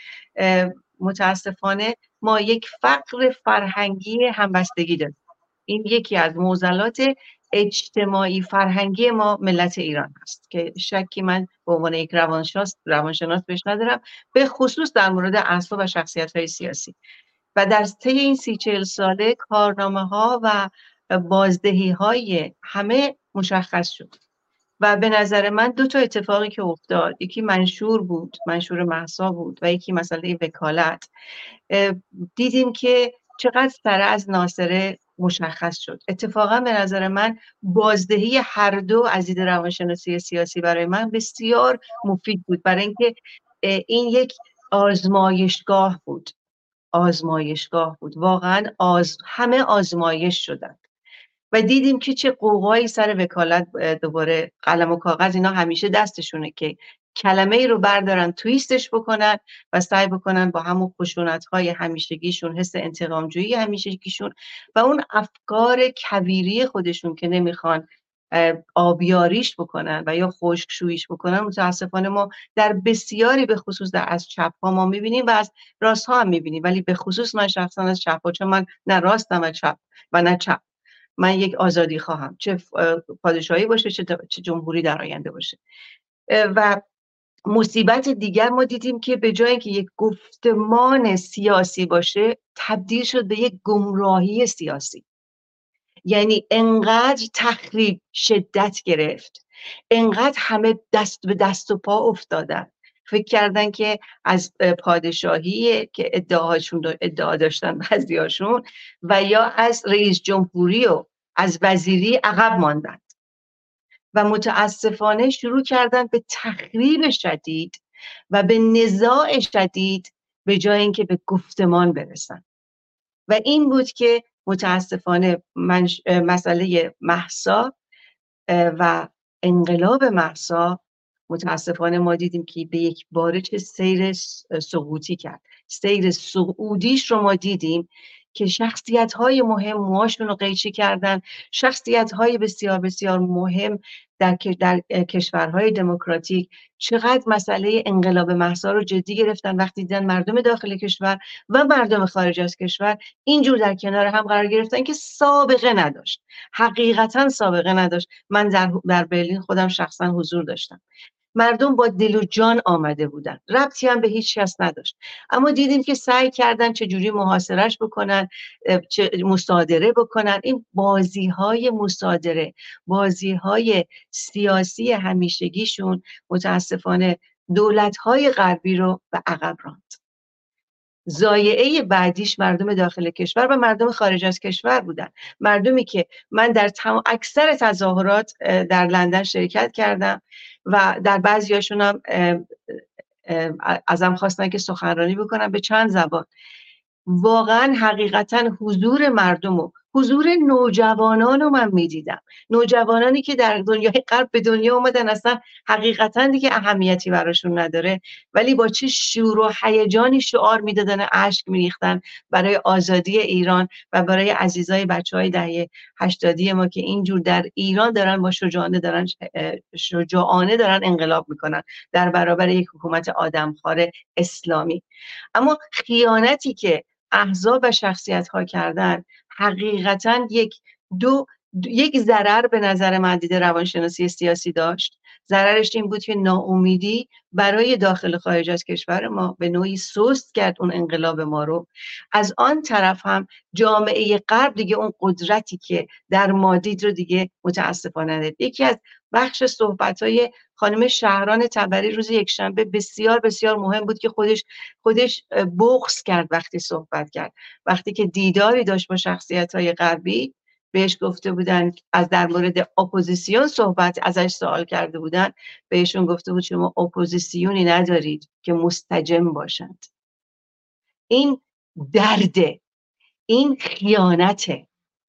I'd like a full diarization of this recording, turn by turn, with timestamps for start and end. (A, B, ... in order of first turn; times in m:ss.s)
0:00.4-0:05.1 A
0:05.7-0:16.9 A
0:17.6-0:24.1 A
0:24.8-0:31.1 A
0:31.7-0:46.3 A
0:47.0-0:50.8 A
0:51.5-1:20.6 A
1:21.2-1:25.6 A
1:26.3-1:26.8 A
1:27.5-1:35.0 A
1:36.1-1:53.0 A
1:54.1-1:57.8 A
1:58.3-2:02.4 A
2:03.3-2:07.7 A
2:08.5-2:40.8 A
2:41.4-3:00.0 A
3:01.1-3:16.3 A
3:17.1-3:44.8 A
3:45.4-4:29.9 A
4:31.1-4:32.6 A
4:33.3-4:34.6 A